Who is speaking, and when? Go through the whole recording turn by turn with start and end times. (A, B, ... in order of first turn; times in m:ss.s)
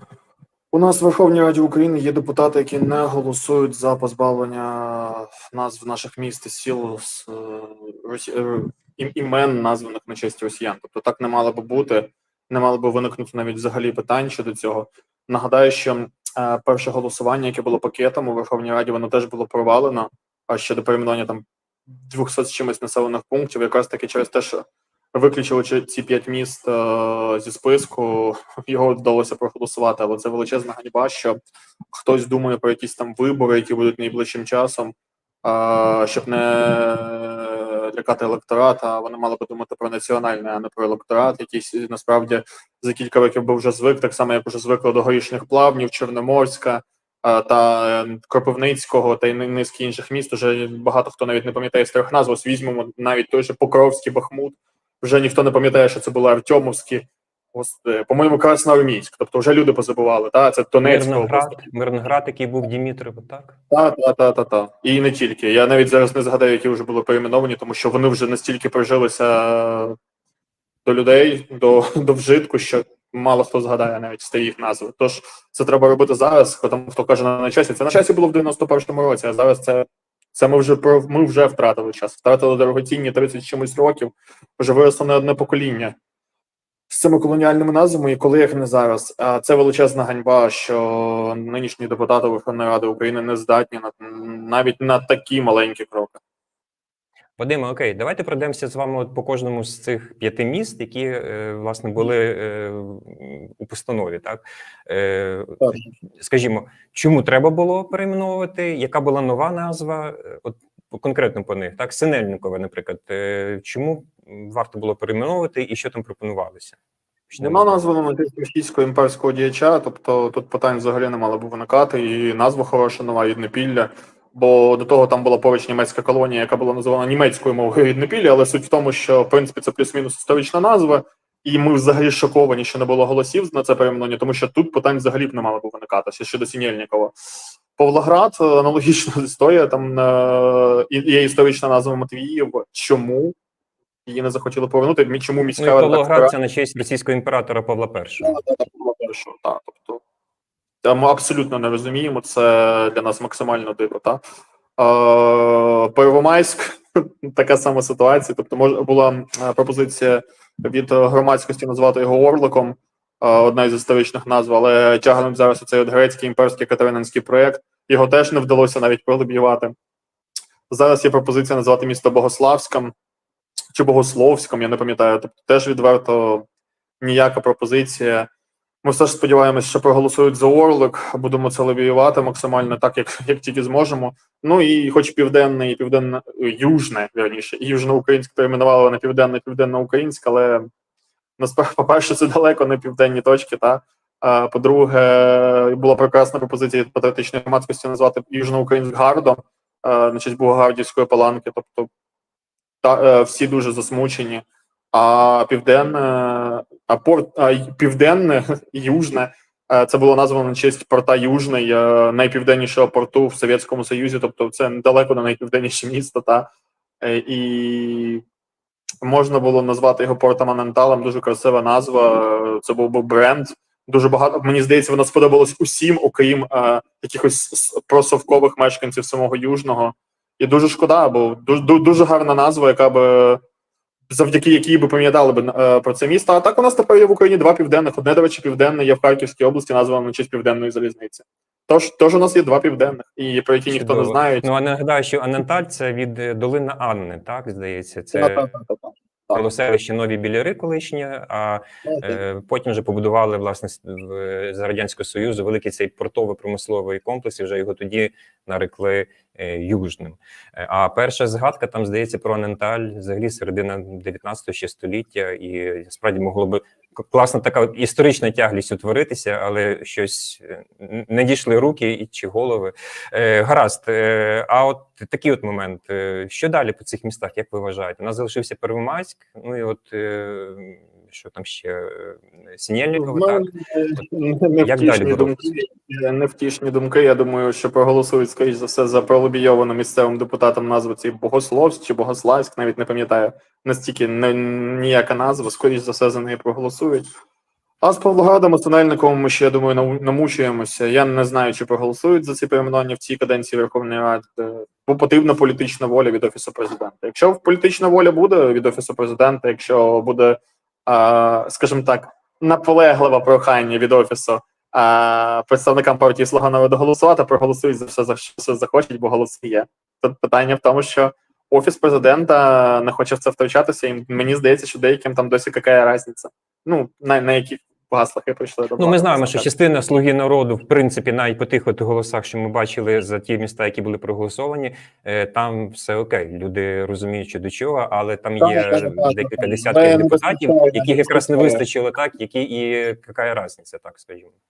0:00.7-0:31.4 A
0:31.9-1:01.6 A
1:00.8-1:03.6 B
1:03.7-1:10.0 A
1:10.8-1:25.9 A
1:26.9-1:36.2 A
1:37.4-1:56.8 B
1:45.6-1:45.9 A
1:57.3-1:57.8 B
1:57.4-2:17.2 A
2:17.8-2:23.4 A
2:24.0-2:26.3 A
2:25.6-2:28.4 B
2:28.2-2:30.0 A
2:30.8-2:34.2 A
2:34.8-2:49.7 A
2:50.7-2:52.9 A
2:53.7-2:56.4 A
2:57.0-2:58.3 A
2:58.8-3:10.7 A
3:11.4-3:21.9 A
3:22.8-3:36.5 A
3:37.0-3:38.2 A
3:39.0-3:53.4 A
3:54.1-4:04.4 A
4:03.7-4:08.5 B
4:08.1-4:09.4 A
4:09.3-4:43.5 B
4:11.8-4:12.2 A
4:43.0-4:57.1 A
4:44.6-4:45.5 B
4:57.8-5:29.5 A
5:28.8-5:44.3 B
5:38.4-5:41.6 A